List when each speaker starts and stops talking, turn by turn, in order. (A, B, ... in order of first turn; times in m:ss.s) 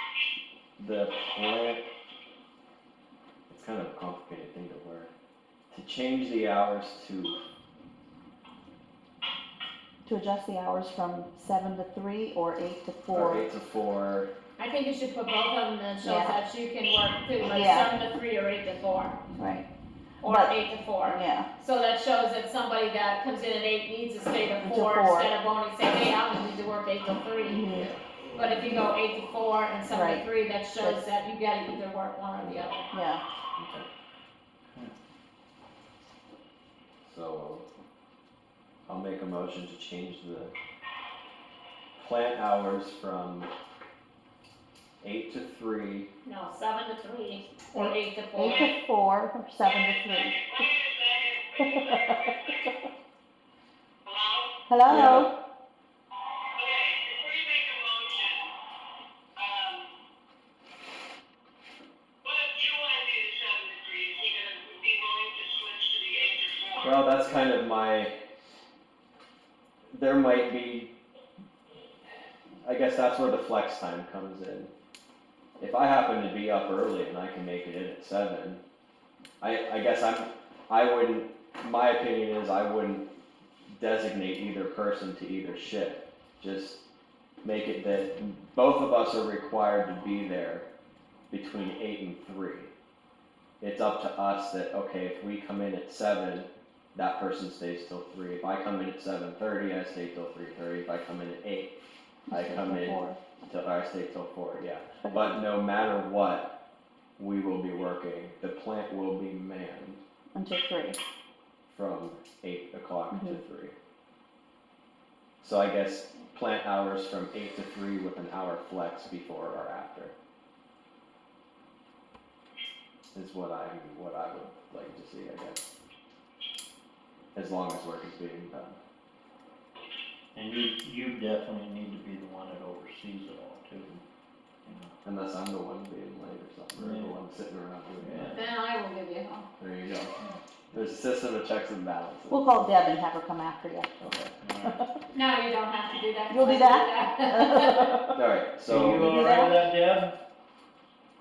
0:00.8-0:01.9 A
0:03.5-0:05.1 A
0:05.7-0:07.4 A
0:10.1-0:13.5 B
0:13.1-0:14.3 A
0:14.6-0:19.2 C
0:16.0-0:16.4 B
0:17.5-0:17.9 B
0:19.4-0:19.7 B
0:20.2-0:32.9 C
0:20.2-0:21.5 B
0:24.6-0:25.3 B
0:27.5-0:27.9 B
0:27.7-0:28.0 A
0:29.9-0:30.3 B
0:32.9-0:33.2 B
0:33.6-0:33.9 A
0:37.0-0:37.6 A
0:38.9-0:40.5 A
0:42.0-0:43.5 A
0:45.0-0:46.1 A
0:46.2-0:48.8 C
0:47.7-0:50.7 B
0:49.7-0:52.7 D
0:51.6-0:52.8 B
0:54.1-0:54.6 D
0:54.7-0:55.3 B
0:54.9-0:55.3 A
0:56.6-0:58.5 D
0:59.4-0:59.9 D
1:02.2-1:07.0 D
1:06.8-1:08.1 A
1:09.9-1:11.0 A
1:12.6-1:14.7 A
1:15.6-1:18.6 A
1:19.4-1:23.1 A
1:23.7-1:26.9 A
1:27.4-1:30.7 A
1:31.3-1:32.7 A
1:33.6-1:41.8 A
1:42.3-1:43.2 B
1:42.3-1:46.6 A
1:45.0-1:45.4 B
1:47.2-1:50.0 A
1:50.3-1:51.0 B
1:51.7-1:53.7 A
1:53.1-1:53.4 B
1:55.4-2:00.1 A
2:03.1-2:05.6 A
2:07.3-2:08.8 A
2:10.3-2:14.0 E
2:14.6-2:14.9 E
2:15.0-2:18.4 A
2:16.7-2:17.2 E
2:18.0-2:18.4 E
2:18.3-2:19.5 C
2:19.6-2:20.1 A
2:20.7-2:22.5 A
2:22.3-2:24.0 B
2:24.0-2:24.4 A
2:24.4-2:24.8 E
2:24.6-2:25.0 B
2:25.1-2:27.9 C
2:26.3-2:28.3 B
2:28.2-2:29.2 A
2:28.7-2:30.2 E
2:29.0-2:29.6 B